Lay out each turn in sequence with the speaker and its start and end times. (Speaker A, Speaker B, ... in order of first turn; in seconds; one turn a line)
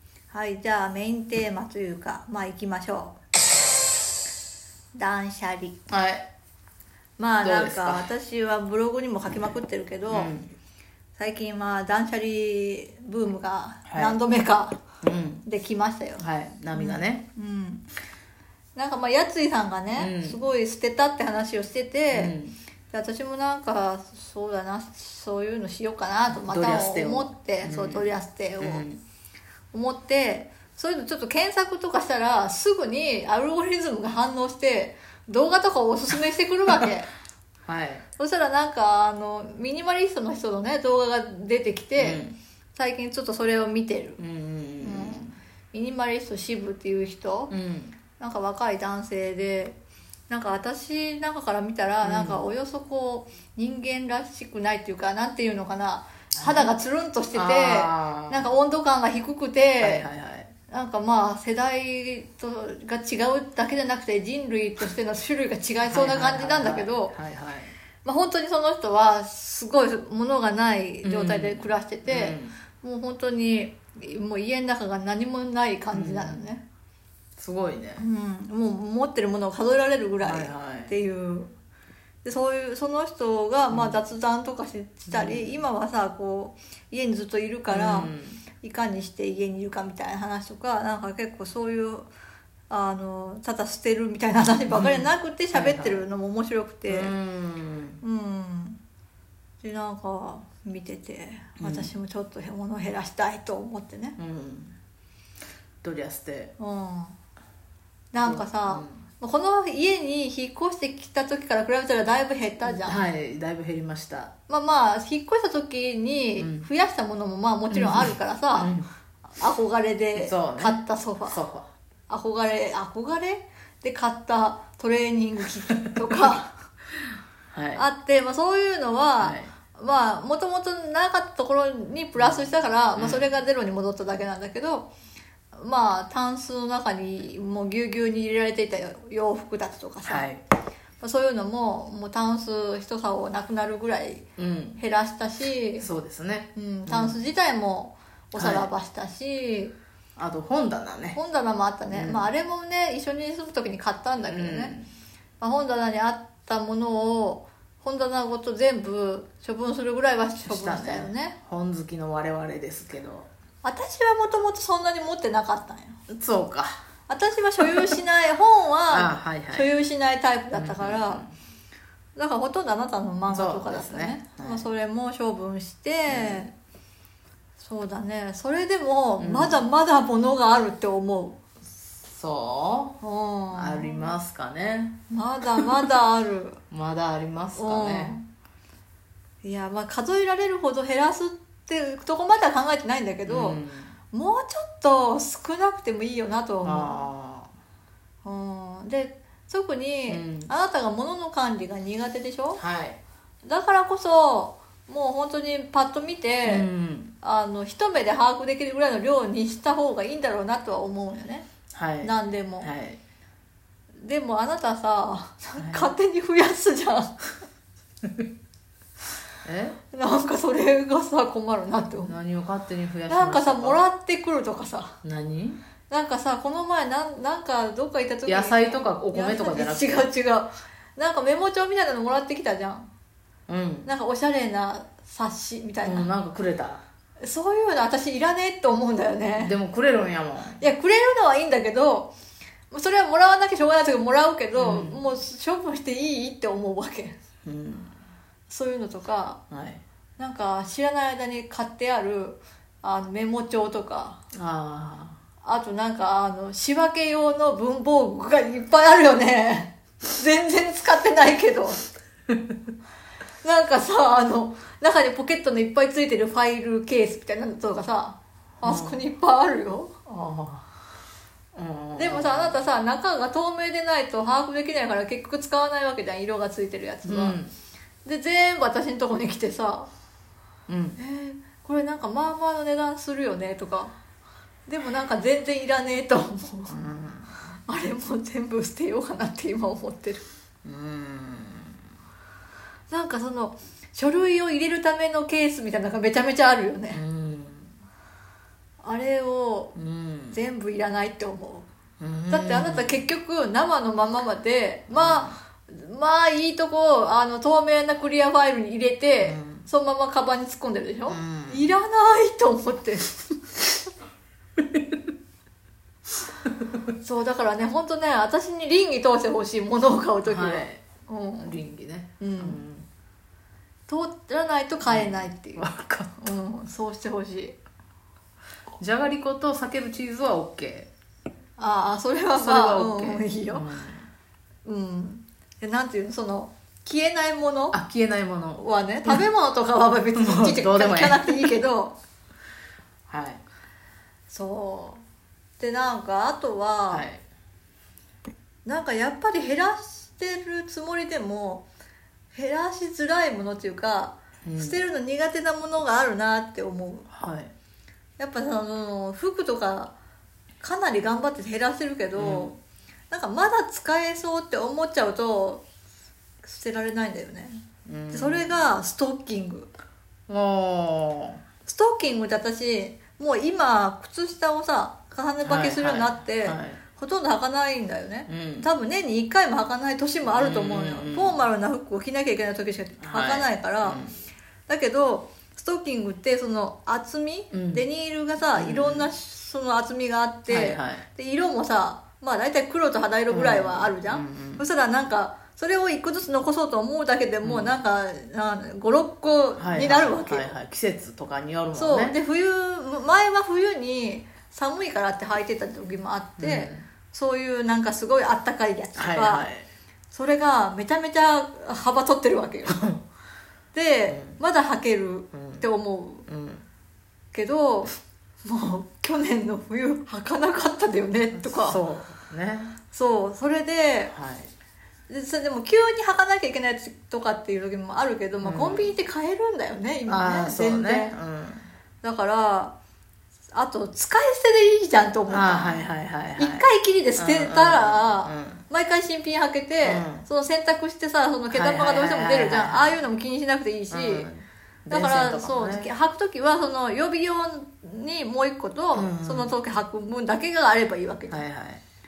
Speaker A: 0.3-3.2
Speaker A: 4.9-5.8
Speaker B: 5.9-6.3
Speaker A: 7.2-10.3
Speaker B: 7.4-8.1
Speaker B: 10.1-10.5
Speaker A: 11.2-14.8
Speaker B: 13.9-14.2
Speaker B: 15.0-15.4
Speaker A: 15.4-17.9
Speaker B: 16.2-17.3
Speaker A: 18.8-22.4
Speaker B: 20.0-20.4
Speaker B: 22.1-22.6
Speaker A: 22.9-28.9
Speaker B: 26.3-29.0
Speaker A: 29.7-37.1
Speaker B: 37.7-38.0
Speaker A: 38.2-42.2
Speaker B: 42.0-42.4
Speaker A: 42.8-44.2
Speaker B: 44.2-45.4
Speaker A: 44.8-47.5
Speaker B: 47.5-48.0
Speaker A: 48.2-49.8
Speaker A: 50.3-60.1
Speaker B: 52.0-52.4
Speaker B: 56.4-56.7
Speaker B: 57.3-58.5
Speaker B: 59.8-60.5
Speaker A: 60.7-67.2
Speaker B: 65.9-67.7
Speaker A: 68.0-76.6
Speaker B: 71.0-72.6
Speaker B: 75.9-76.4
Speaker B: 77.4-78.0
Speaker A: 78.0-81.5
Speaker B: 80.2-80.9
Speaker A: 82.2-92.1
Speaker B: 83.7-84.0
Speaker B: 85.1-85.6
Speaker B: 87.7-88.4
Speaker A: 92.7-97.1
Speaker B: 94.7-96.0
Speaker B: 96.9-98.0
Speaker A: 98.0-98.8
Speaker A: 99.6-104.2
Speaker B: 101.6-101.9
Speaker B: 104.2-104.7
Speaker B: 105.8-106.5
Speaker A: 106.6-107.2
Speaker A: 108.1-113.0
Speaker B: 108.2-109.0
Speaker B: 112.7-114.3
Speaker A: 114.5-118.7
Speaker B: 116.4-116.7
Speaker B: 117.7-118.9
Speaker A: 119.4-121.4
Speaker B: 120.2-121.7
Speaker A: 122.1-126.5
Speaker B: 127.5-127.8
Speaker A: 127.8-134.9
Speaker B: 129.2-129.5
Speaker B: 133.0-133.3
Speaker A: 135.5-140.3
Speaker B: 140.0-140.4
Speaker A: 141.0-144.2
Speaker B: 144.4-144.8
Speaker A: 144.8-145.9
Speaker B: 145.8-147.2
Speaker A: 146.6-149.7
Speaker B: 148.3-148.7
Speaker B: 150.2-151.2
Speaker A: 151.2-154.8
Speaker B: 151.9-152.3
Speaker B: 154.2-154.9
Speaker A: 155.4-161.4
Speaker B: 160.4-163.3
Speaker A: 163.6-166.0
Speaker B: 166.1-166.8
Speaker A: 167.1-171.2
Speaker B: 167.6-168.0
Speaker B: 168.9-169.7
Speaker B: 170.5-171.3
Speaker A: 172.2-176.5
Speaker B: 173.3-174.7
Speaker B: 176.1-176.5
Speaker A: 177.6-181.4
Speaker B: 179.2-179.6
Speaker B: 182.1-183.0
Speaker A: 183.0-184.1
Speaker B: 183.5-185.0
Speaker A: 185.1-186.6
Speaker B: 186.7-188.2
Speaker A: 187.6-188.2
Speaker A: 189.4-193.6
Speaker B: 193.3-194.0
Speaker A: 194.1-197.0
Speaker B: 196.6-197.5
Speaker A: 198.2-202.6
Speaker B: 200.1-200.5
Speaker B: 202.6-203.0
Speaker A: 203.4-206.7
Speaker B: 206.4-207.1
Speaker A: 207.2-211.5
Speaker B: 211.7-213.0
Speaker A: 212.0-212.7
Speaker A: 214.0-217.2
Speaker B: 215.6-215.9
Speaker B: 219.4-219.8
Speaker A: 219.9-222.2
Speaker B: 222.0-223.8
Speaker A: 223.1-225.0
Speaker B: 225.0-225.6
Speaker A: 225.9-232.9
Speaker B: 228.3-230.1
Speaker B: 233.5-233.9
Speaker A: 233.8-236.1
Speaker B: 235.8-236.8
Speaker A: 237.2-239.5
Speaker B: 239.4-240.6
Speaker A: 240.6-242.1
Speaker A: 242.7-247.2
Speaker B: 244.6-245.0
Speaker B: 247.4-247.9
Speaker A: 248.5-249.4
Speaker B: 249.5-249.8
Speaker A: 250.2-254.2
Speaker B: 254.3-255.2
Speaker A: 255.4-261.8
Speaker A: 263.4-270.1
Speaker B: 268.6-269.0
Speaker B: 270.1-270.7
Speaker B: 271.5-272.6
Speaker A: 271.9-277.4
Speaker B: 277.1-277.5
Speaker A: 278.1-279.9
Speaker B: 280.7-281.0
Speaker A: 281.0-283.9
Speaker A: 284.7-286.8
Speaker B: 286.7-287.4
Speaker A: 287.7-290.2
Speaker B: 290.6-291.8
Speaker A: 292.9-297.0
Speaker B: 296.9-297.7
Speaker A: 298.8-299.8
Speaker B: 299.8-300.4
Speaker A: 300.3-301.7
Speaker B: 302.0-303.0
Speaker A: 302.3-313.3
Speaker B: 304.9-305.4
Speaker B: 309.2-309.7
Speaker B: 311.1-311.7
Speaker A: 317.0-321.6
Speaker B: 320.2-320.8
Speaker B: 321.4-322.9
Speaker A: 322.2-322.6
Speaker A: 323.9-325.7
Speaker B: 324.9-326.2
Speaker A: 326.2-327.6
Speaker B: 328.8-330.9
Speaker A: 331.6-333.7
Speaker B: 332.3-334.1
Speaker A: 334.7-337.8
Speaker B: 337.7-339.2
Speaker A: 338.6-341.9
Speaker B: 340.1-341.4
Speaker B: 343.1-343.4
Speaker A: 344.3-345.0
Speaker A: 345.6-347.1
Speaker B: 346.9-347.2
Speaker A: 348.6-351.7
Speaker A: 352.3-357.1
Speaker B: 354.5-354.8
Speaker B: 357.1-357.5
Speaker A: 358.2-359.9
Speaker A: 360.6-362.6
Speaker B: 362.2-362.5
Speaker A: 363.1-365.6
Speaker A: 366.4-369.7
Speaker B: 367.9-368.7
Speaker B: 370.3-371.4
Speaker A: 371.6-384.0
Speaker B: 375.4-376.8
Speaker B: 378.3-378.7
Speaker B: 380.3-381.4
Speaker B: 383.0-384.1
Speaker A: 384.7-400.5
Speaker B: 387.5-387.9
Speaker B: 388.6-389.1
Speaker B: 390.5-391.0
Speaker B: 393.3-394.6
Speaker B: 397.4-397.8
Speaker B: 399.6-402.2
Speaker A: 401.7-409.5
Speaker B: 406.4-406.9
Speaker B: 409.0-409.7
Speaker A: 410.1-413.0
Speaker A: 413.7-416.3
Speaker B: 414.1-414.4
Speaker B: 415.3-415.6
Speaker B: 416.3-416.6
Speaker A: 417.3-417.9
Speaker A: 418.4-421.8
Speaker B: 421.4-422.8
Speaker A: 422.9-424.1
Speaker B: 424.1-424.5
Speaker A: 425.1-431.1
Speaker B: 428.4-428.9
Speaker B: 430.1-431.7
Speaker A: 432.0-432.8
Speaker A: 433.5-444.3
Speaker B: 435.3-438.6
Speaker B: 439.8-440.3
Speaker B: 441.5-443.0
Speaker B: 443.9-445.9
Speaker A: 444.9-451.5
Speaker B: 448.9-449.5
Speaker B: 451.3-451.8